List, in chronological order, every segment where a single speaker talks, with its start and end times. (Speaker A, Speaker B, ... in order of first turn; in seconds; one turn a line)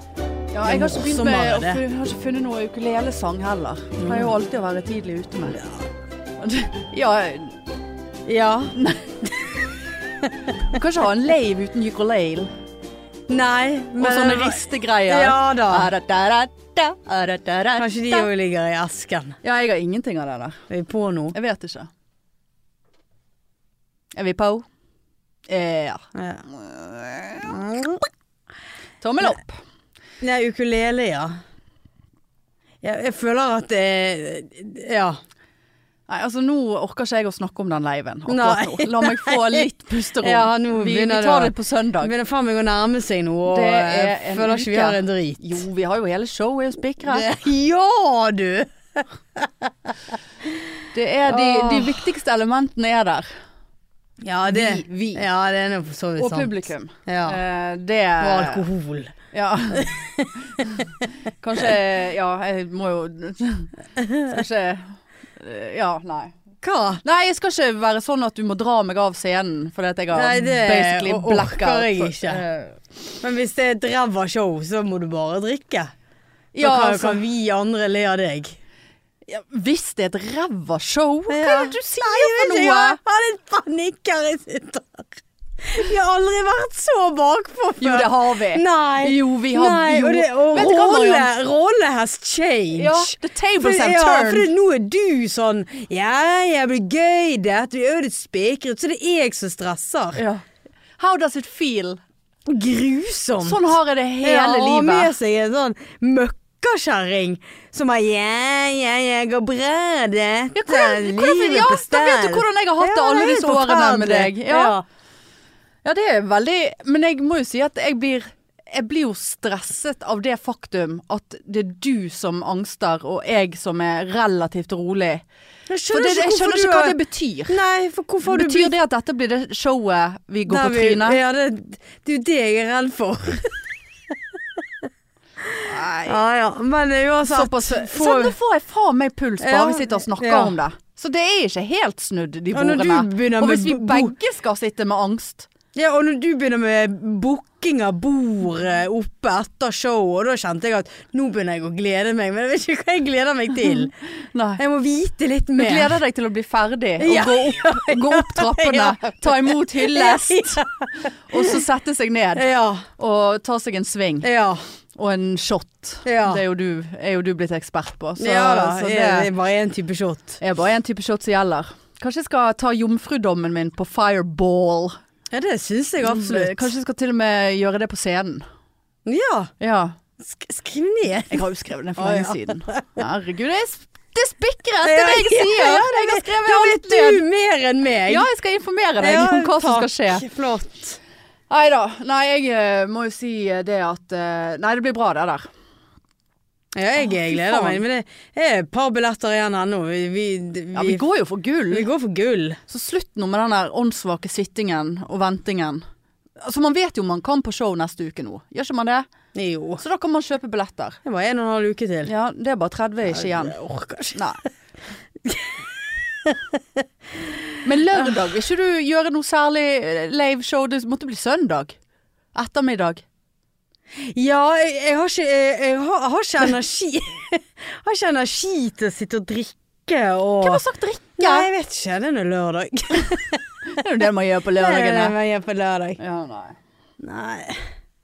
Speaker A: 0.5-5.6
Speaker B: 0.6-1.8
Speaker B: 4.0-4.3
Speaker B: 5.5-5.9
Speaker A: 6.4-7.6
Speaker B: 8.2-8.8
Speaker A: 8.7-9.5
Speaker A: 10.6-12.5
Speaker B: 13.3-15.9
Speaker A: 14.0-18.3
Speaker B: 17.8-19.4
Speaker A: 19.4-20.6
Speaker B: 20.7-21.3
Speaker A: 21.3-21.9
Speaker A: 24.1-24.6
Speaker A: 25.5-27.9
Speaker B: 26.1-26.4
Speaker A: 29.0-29.6
Speaker B: 30.2-31.4
Speaker B: 32.8-35.2
Speaker A: 36.1-42.1
Speaker B: 38.3-39.6
Speaker B: 40.2-45.6
Speaker A: 43.4-47.3
Speaker B: 47.1-49.9
Speaker A: 50.9-53.3
Speaker B: 51.3-52.1
Speaker B: 54.2-57.4
Speaker A: 54.5-55.2
Speaker A: 56.2-58.7
Speaker B: 58.2-59.1
Speaker A: 59.3-59.9
Speaker B: 59.7-60.9
Speaker A: 61.4-66.3
Speaker B: 66.6-67.0
Speaker A: 67.0-72.8
Speaker B: 70.1-72.4
Speaker B: 73.2-75.9
Speaker A: 76.5-77.2
Speaker B: 76.6-78.6
Speaker A: 79.3-83.0
Speaker B: 81.3-100.2
Speaker A: 87.8-91.3
Speaker A: 92.7-94.5
Speaker A: 100.2-100.4
Speaker A: 101.0-102.0
Speaker B: 102.5-103.6
Speaker A: 103.4-105.1
Speaker B: 104.2-114.8
Speaker A: 110.5-114.8
Speaker A: 115.8-125.2
Speaker B: 125.7-128.7
Speaker A: 125.9-127.6
Speaker A: 128.2-131.2
Speaker B: 130.4-134.8
Speaker B: 135.4-138.3
Speaker A: 135.6-136.2
Speaker A: 137.2-145.5
Speaker B: 139.4-140.5
Speaker B: 142.5-144.1
Speaker B: 145.7-153.9
Speaker A: 154.3-154.6
Speaker B: 154.6-156.0
Speaker A: 155.6-160.6
Speaker B: 157.0-161.6
Speaker A: 161.3-164.3
Speaker B: 162.3-162.8
Speaker B: 164.2-164.6
Speaker A: 164.9-169.3
Speaker B: 166.0-166.4
Speaker B: 168.2-170.4
Speaker A: 170.4-175.0
Speaker B: 175.3-176.7
Speaker A: 176.0-178.4
Speaker B: 179.1-179.5
Speaker A: 179.6-180.0
Speaker B: 180.2-181.4
Speaker A: 181.3-187.2
Speaker B: 182.0-182.9
Speaker B: 184.8-188.3
Speaker A: 188.0-190.3
Speaker B: 189.0-191.0
Speaker A: 191.5-195.5
Speaker B: 196.7-201.0
Speaker A: 197.0-197.8
Speaker A: 200.7-201.9
Speaker B: 201.7-202.6
Speaker A: 202.7-205.8
Speaker A: 206.4-209.1
Speaker B: 209.3-209.8
Speaker A: 209.8-211.0
Speaker B: 211.0-212.1
Speaker A: 212.0-213.6
Speaker B: 213.1-214.2
Speaker A: 214.1-214.4
Speaker B: 215.2-215.7
Speaker B: 216.2-217.4
Speaker A: 217.6-221.8
Speaker A: 222.3-223.0
Speaker B: 223.9-230.6
Speaker A: 230.4-231.5
Speaker B: 231.2-233.5
Speaker A: 233.7-235.1
Speaker B: 234.5-236.0
Speaker A: 236.0-236.6
Speaker B: 237.0-237.7